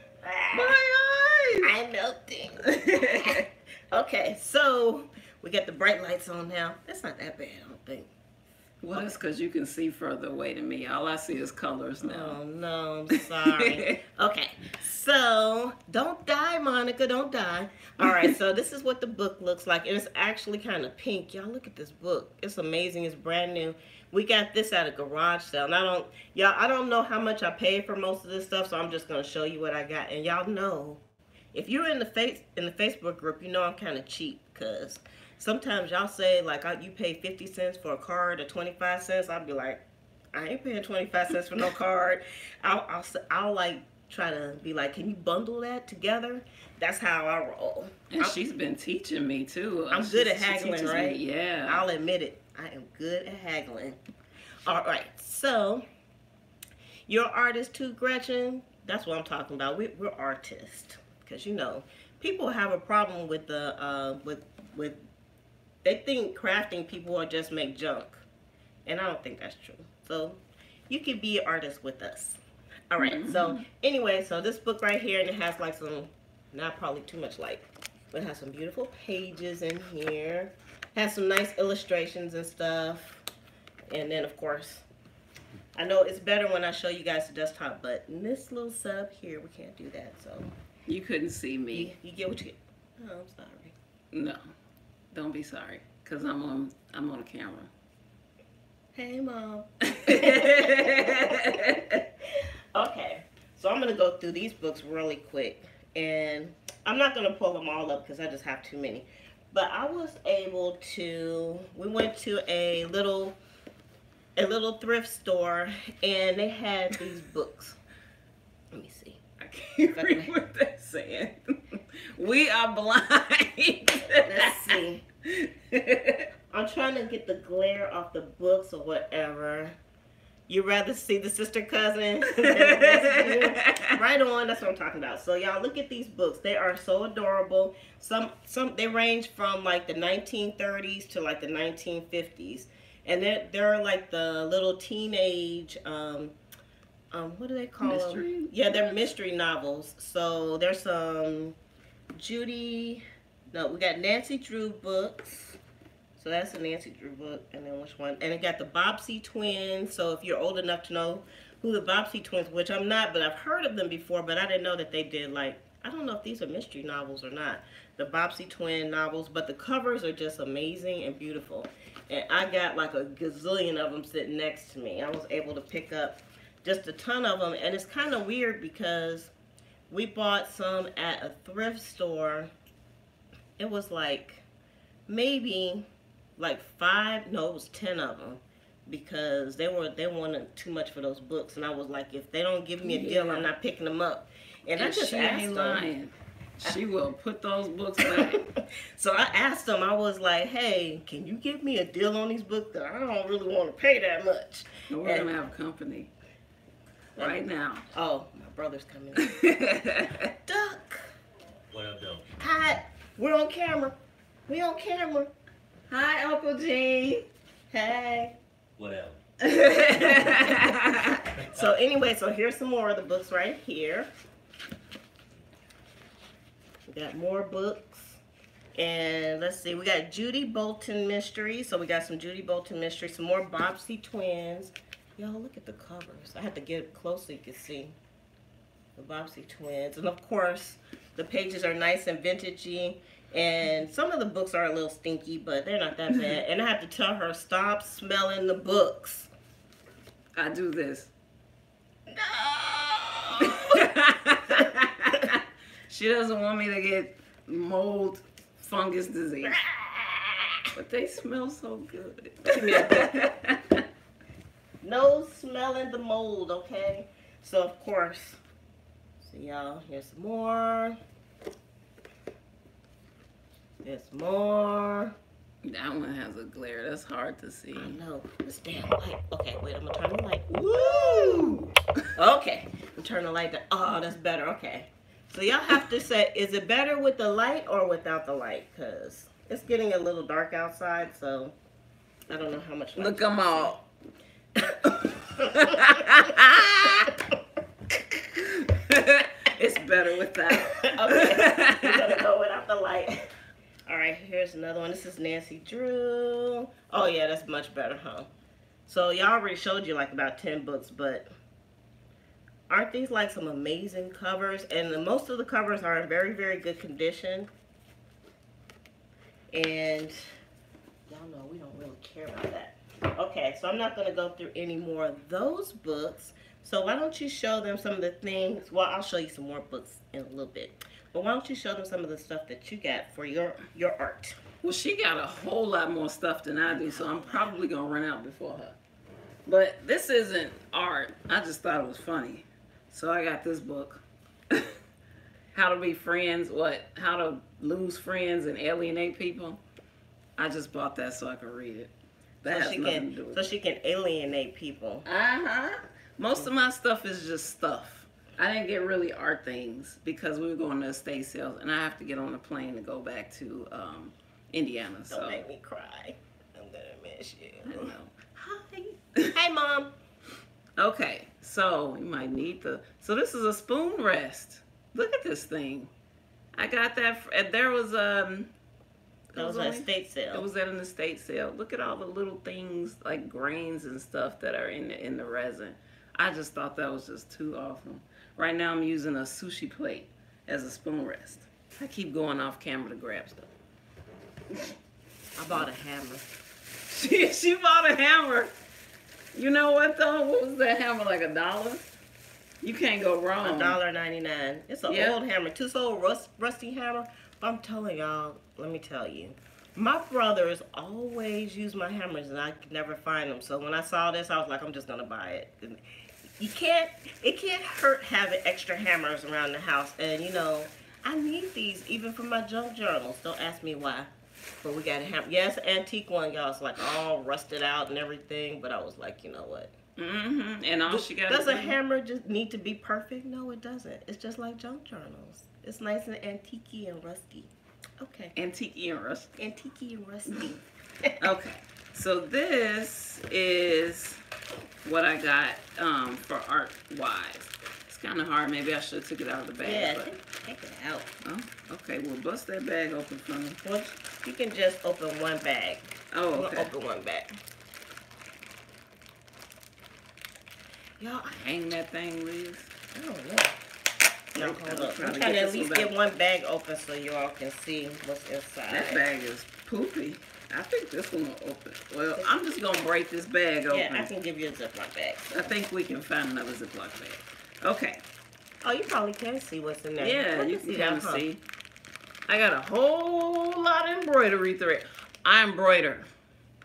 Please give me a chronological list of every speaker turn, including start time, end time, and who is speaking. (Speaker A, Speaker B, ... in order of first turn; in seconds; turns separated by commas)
Speaker A: 0.2-0.8, Speaker B: 0.5-1.7, Speaker A: 1.6-8.1, Speaker B: 2.7-3.4, Speaker B: 8.8-12.4, Speaker A: 12.0-31.0, Speaker B: 13.6-13.9, Speaker A: 31.5-39.8, Speaker A: 40.3-48.4, Speaker B: 48.1-51.9, Speaker A: 49.9-54.0, Speaker A: 54.6-55.8, Speaker A: 57.1-65.0, Speaker A: 65.8-68.2, Speaker A: 68.8-83.2, Speaker B: 73.0-73.6, Speaker A: 83.9-84.8, Speaker A: 85.7-90.5, Speaker B: 90.9-91.9, Speaker A: 91.7-93.7, Speaker B: 94.1-94.4, Speaker B: 95.1-97.7, Speaker A: 98.9-101.8, Speaker B: 99.9-102.0, Speaker A: 102.7-113.4, Speaker A: 114.4-117.8, Speaker A: 118.7-119.2, Speaker B: 119.4-126.2, Speaker A: 119.9-120.3, Speaker A: 124.1-125.0, Speaker A: 126.5-129.8, Speaker A: 130.5-146.3, Speaker B: 132.3-133.9, Speaker A: 147.1-151.6, Speaker B: 147.8-148.9, Speaker A: 152.1-155.6, Speaker A: 156.2-179.3, Speaker A: 179.9-182.5, Speaker A: 183.6-184.4, Speaker A: 185.1-185.8, Speaker A: 186.4-195.8, Speaker B: 192.8-193.5, Speaker B: 194.8-198.4, Speaker A: 198.0-205.3, Speaker B: 204.9-206.1, Speaker A: 207.2-207.4, Speaker B: 207.2-207.8, Speaker A: 207.9-209.4, Speaker B: 209.2-210.3, Speaker A: 210.4-211.1, Speaker C: 211.7-212.3, Speaker A: 212.4-213.9, Speaker A: 214.5-215.3, Speaker B: 215.9-217.2, Speaker A: 217.7-218.3, Speaker C: 218.8-219.2, Speaker B: 219.4-221.2, Speaker C: 220.1-220.6, Speaker C: 221.2-221.7, Speaker A: 221.5-224.1, Speaker A: 226.9-228.2, Speaker A: 228.8-237.9, Speaker A: 239.0-249.3, Speaker B: 250.3-251.1, Speaker A: 252.1-253.9, Speaker B: 253.4-259.6, Speaker A: 259.4-260.7, Speaker B: 260.7-263.8, Speaker A: 262.5-263.1, Speaker A: 264.8-268.4, Speaker A: 269.2-271.0, Speaker A: 273.8-275.1, Speaker B: 275.6-278.0, Speaker A: 277.7-281.6, Speaker B: 280.5-281.7, Speaker A: 282.1-291.5, Speaker A: 292.3-293.7, Speaker B: 293.0-293.8, Speaker A: 294.6-296.2, Speaker B: 295.4-297.1, Speaker B: 298.4-302.0, Speaker A: 300.6-303.3, Speaker A: 303.9-308.3, Speaker A: 308.9-311.3, Speaker A: 312.7-317.5, Speaker A: 319.5-320.2, Speaker A: 321.1-334.4, Speaker B: 334.6-338.8, Speaker A: 336.8-337.5, Speaker B: 339.4-344.7, Speaker B: 345.5-349.6, Speaker B: 350.4-351.9, Speaker B: 352.4-353.4, Speaker A: 352.4-355.1, Speaker B: 355.1-365.4, Speaker A: 365.1-369.9, Speaker B: 367.6-368.1, Speaker B: 370.8-375.9, Speaker B: 376.5-378.5, Speaker B: 379.3-393.5, Speaker A: 379.4-380.4, Speaker A: 395.4-396.2, Speaker B: 396.9-398.5, Speaker B: 399.3-401.9, Speaker B: 402.6-403.8, Speaker A: 403.4-415.8, Speaker B: 404.9-405.2, Speaker A: 416.4-424.1, Speaker A: 424.6-429.7, Speaker B: 430.0-431.8, Speaker A: 430.9-438.3, Speaker B: 438.3-439.3, Speaker A: 439.4-441.2, Speaker B: 440.3-440.6, Speaker B: 441.2-444.2, Speaker B: 444.8-450.1, Speaker A: 449.6-451.1, Speaker B: 451.2-453.6, Speaker A: 453.6-457.3, Speaker B: 456.1-456.7, Speaker A: 461.0-461.3, Speaker B: 461.2-462.7, Speaker A: 462.9-463.5, Speaker B: 464.3-465.9, Speaker A: 464.3-469.0, Speaker B: 468.7-474.1, Speaker A: 473.7-475.5, Speaker B: 475.3-478.0, Speaker A: 478.6-481.2, Speaker B: 480.0-481.4, Speaker B: 482.3-486.1